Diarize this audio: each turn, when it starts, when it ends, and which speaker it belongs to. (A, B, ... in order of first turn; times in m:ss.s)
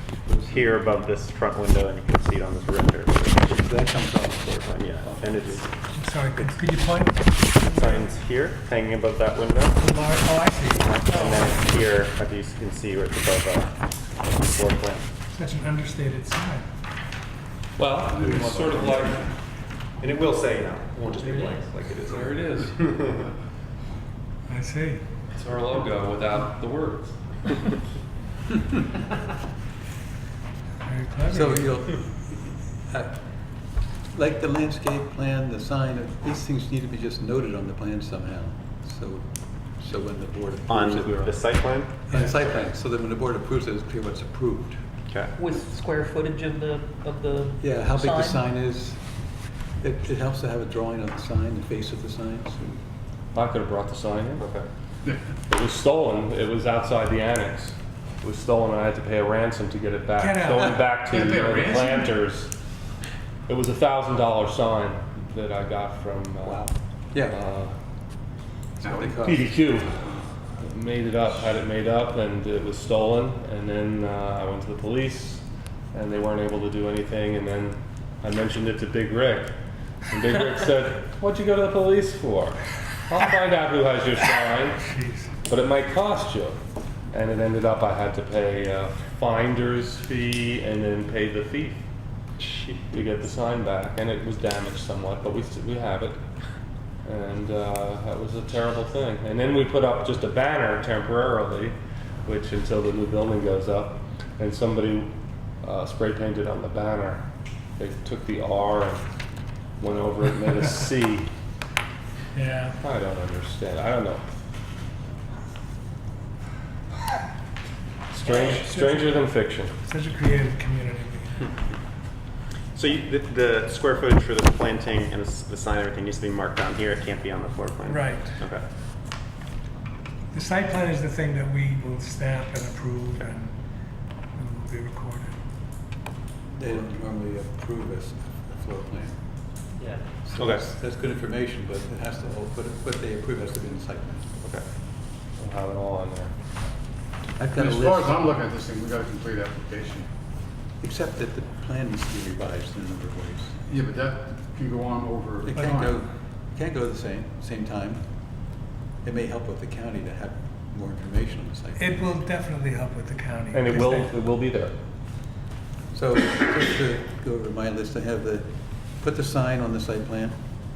0:00.3-0:01.0 A
0:00.4-0:03.6 B
0:03.4-0:05.7 A
0:04.6-0:05.7 B
0:05.9-0:08.0 C
0:07.6-0:09.8 B
0:09.8-0:11.7 C
0:10.8-0:15.1 B
0:15.3-0:16.6 C
0:17.8-0:19.3 D
0:18.1-0:19.3 E
0:18.4-0:18.6 B
0:20.0-0:23.3 B
0:21.1-0:21.6 F
0:22.0-0:22.9 D
0:24.5-0:25.0 C
0:25.3-0:27.8 D
0:30.8-0:31.7 C
0:31.3-0:33.2 A
0:34.1-0:44.8 A
0:40.7-0:42.6 B
0:45.4-0:48.4 F
0:47.6-0:49.0 A
0:49.8-0:52.8 A
0:53.3-0:54.4 D
0:54.4-0:54.7 B
0:55.5-1:02.5 D
1:00.2-1:00.8 C
1:01.0-1:02.2 E
1:03.5-1:06.7 D
1:06.4-1:07.4 A
1:07.2-1:07.8 D
1:08.8-1:09.5 A
1:08.8-1:09.2 E
1:09.2-1:19.5 D
1:20.1-1:24.9 D
1:24.8-1:25.3 C
1:25.5-1:26.6 D
1:27.1-1:31.8 D
1:32.4-1:33.0 B
1:32.9-1:36.2 D
1:37.0-1:41.7 D
1:42.2-1:45.1 D
1:45.6-1:47.2 D
1:47.8-1:49.0 D
1:49.8-1:51.3 D
1:52.3-1:52.8 C
1:52.8-1:54.2 D
1:58.1-1:59.7 D
1:58.2-2:01.4 C
2:02.7-2:08.6 B
2:07.9-2:08.4 C
2:10.3-2:13.5 C
2:14.3-2:15.3 C
2:16.5-2:19.2 A
2:20.2-2:24.3 A
2:20.4-2:20.6 B
2:24.4-2:24.6 B
2:25.4-2:26.3 D
2:27.4-2:28.4 A
2:27.5-2:30.1 E
2:30.8-2:33.7 A
2:33.7-2:35.9 E
2:35.4-2:42.0 A
2:35.5-2:35.9 C
2:41.8-2:44.2 C
2:43.5-2:44.7 D
2:45.9-2:50.4 A